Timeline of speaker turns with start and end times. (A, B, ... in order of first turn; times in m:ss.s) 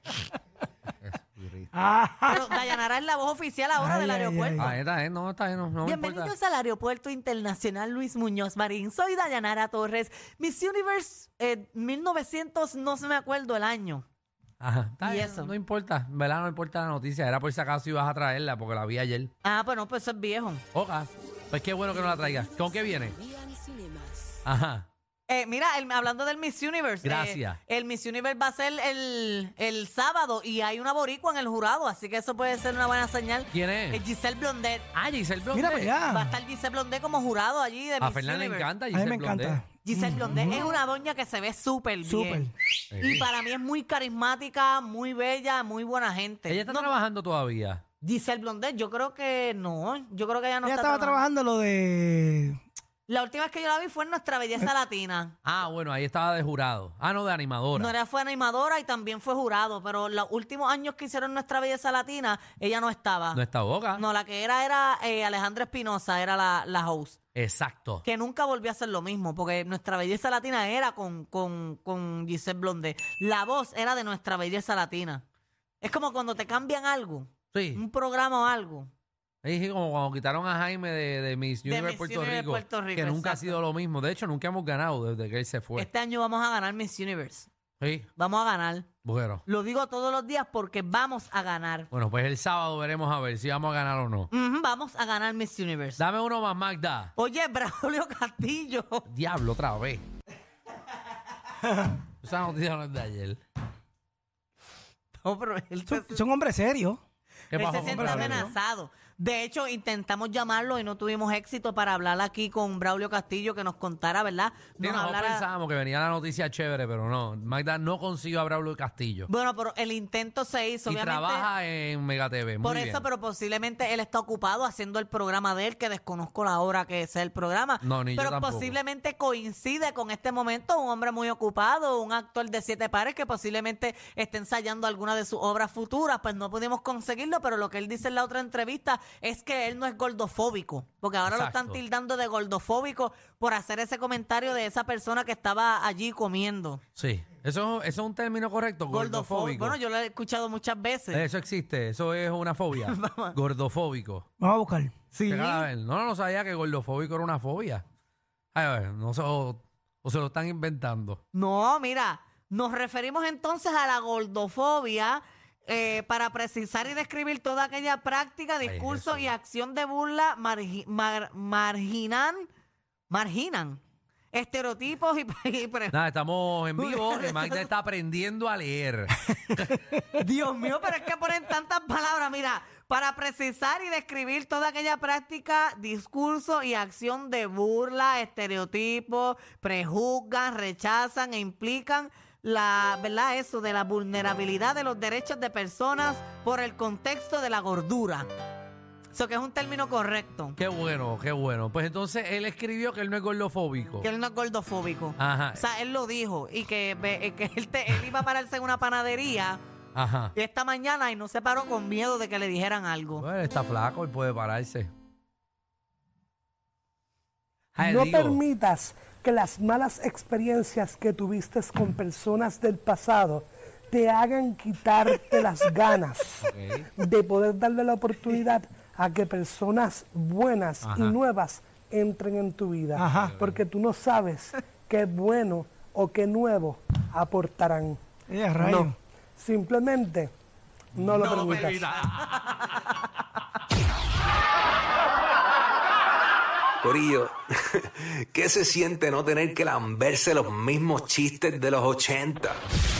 0:01.0-0:01.7 A
0:01.8-0:02.3 B
0:02.3-0:04.7 C
0:03.8-0:04.7 B
0:04.6-0:06.3 A
0:05.8-0:14.0 C
0:14.6-0:19.3 A
0:15.0-0:15.5 C
0:19.4-0:20.6 C
0:20.7-0:23.2 A
0:22.2-0:24.3 D
0:24.4-0:24.9 A
0:25.3-0:34.9 C
0:27.0-0:27.6 A
0:33.5-0:34.0 A
0:34.9-0:35.9 A
0:35.5-0:36.3 B
0:36.1-0:38.7 C
0:38.0-0:39.6 A
0:38.9-0:40.6 B
0:39.8-0:42.5 C
0:42.0-0:42.5 B
0:42.9-0:43.2 A
0:43.0-0:46.9 C
0:46.5-0:47.8 A
0:48.0-0:51.2 C
0:50.6-0:52.6 B
0:53.1-0:55.3 C
0:55.4-0:57.9 A
0:57.7-1:03.4 C
1:03.3-1:04.0 A
1:04.0-1:07.2 C
1:07.4-1:08.0 A
1:08.0-1:15.2 C
1:15.8-1:18.9 C
1:17.5-1:17.8 A
1:19.4-1:25.9 A
1:21.6-1:23.6 C
1:25.8-1:27.5 C
1:27.8-1:28.1 A
1:28.2-1:28.9 C
1:29.0-1:29.4 A
1:29.5-1:31.9 C
1:31.9-1:34.3 A
1:34.3-1:36.0 C
1:36.0-1:37.1 A
1:37.2-1:39.0 C
1:39.1-1:40.0 A
1:42.2-1:43.4 A
1:45.2-1:46.2 C
1:45.9-1:47.0 B
1:47.5-1:48.5 A
1:47.6-1:55.4 C
1:47.6-1:48.5 B
1:54.8-1:59.3 A
1:59.3-2:01.5 C
2:00.8-2:03.0 A
2:02.6-2:26.8 C
2:07.8-2:08.8 A
2:21.2-2:21.8 A
2:27.0-2:29.8 A
2:28.9-2:31.2 C
2:31.1-2:34.2 A
2:32.8-2:33.4 C
2:34.4-2:34.9 B
2:35.1-2:35.7 C
2:35.3-2:37.8 A
2:38.5-2:41.2 A
2:41.3-2:52.5 C
2:48.6-2:49.3 A
2:53.1-2:53.8 C
2:54.3-2:55.9 C
2:55.9-2:59.8 A
2:56.8-2:57.7 C
3:00.1-3:18.3 C
3:19.1-3:20.6 C
3:20.6-3:24.1 A
3:24.0-3:29.6 C
3:25.2-3:25.6 A
3:29.9-3:30.3 A
3:30.3-3:33.2 C
3:33.2-3:34.9 A
3:37.7-3:38.4 A
3:37.8-3:58.0 E
3:46.4-3:46.8 A
3:50.8-3:51.2 A
3:53.0-3:53.3 B
3:53.1-3:53.6 A
3:58.3-3:59.0 B
3:58.6-4:00.3 E
4:00.9-4:02.0 E
4:00.9-4:02.9 A
4:06.8-4:12.6 F